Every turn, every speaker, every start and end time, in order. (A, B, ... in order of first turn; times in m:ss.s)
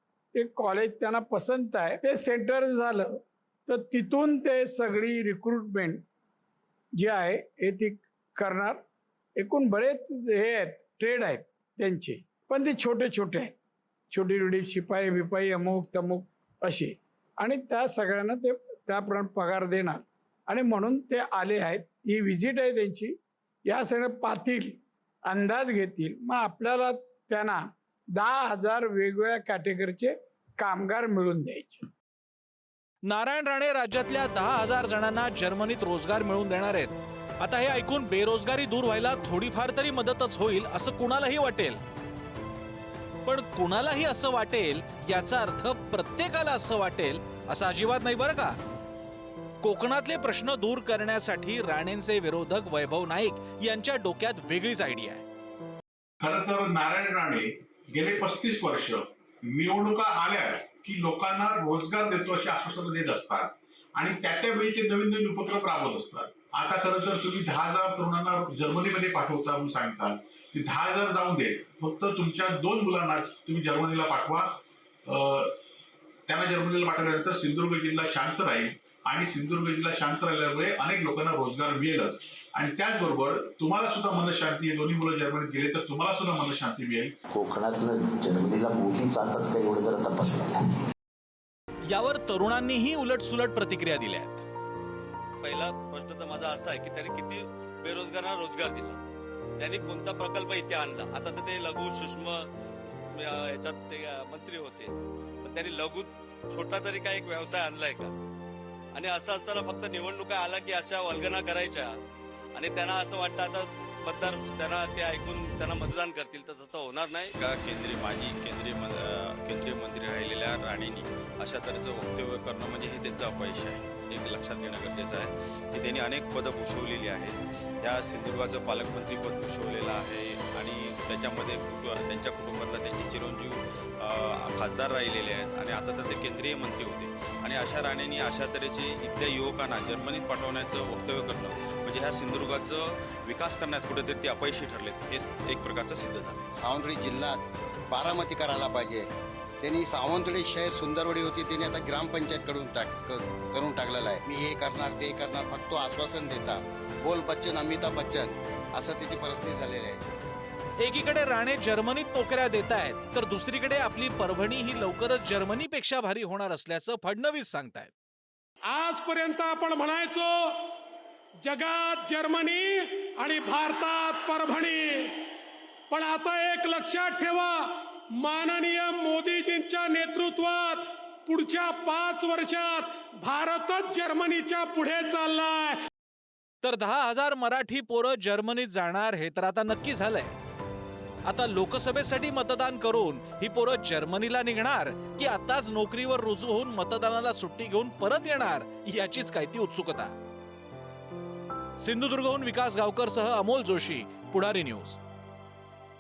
0:00.3-0:06.0 A
0:07.0-0:08.8 A
0:09.4-0:13.5 A
0:14.1-0:23.2 A
0:23.7-0:27.6 A
0:28.1-0:31.8 A
0:33.0-0:41.8 B
0:43.2-0:48.6 B
0:49.6-0:55.2 B
0:56.2-1:14.5 C
1:15.0-1:15.6 C
1:16.3-1:27.1 C
1:27.3-1:30.7 D
1:31.8-1:34.4 B
1:35.4-1:39.0 E
1:39.6-1:42.4 E
1:43.1-1:48.1 E
1:48.9-1:52.0 E
1:52.5-1:57.3 E
1:57.4-2:26.5 F
2:26.6-2:29.1 G
2:29.6-2:40.1 G
2:40.8-2:47.9 B
2:48.7-2:50.7 H
2:51.4-2:55.3 H
2:55.9-3:05.8 H
3:06.6-3:10.3 B
3:11.2-3:20.1 B
3:21.8-3:25.0 B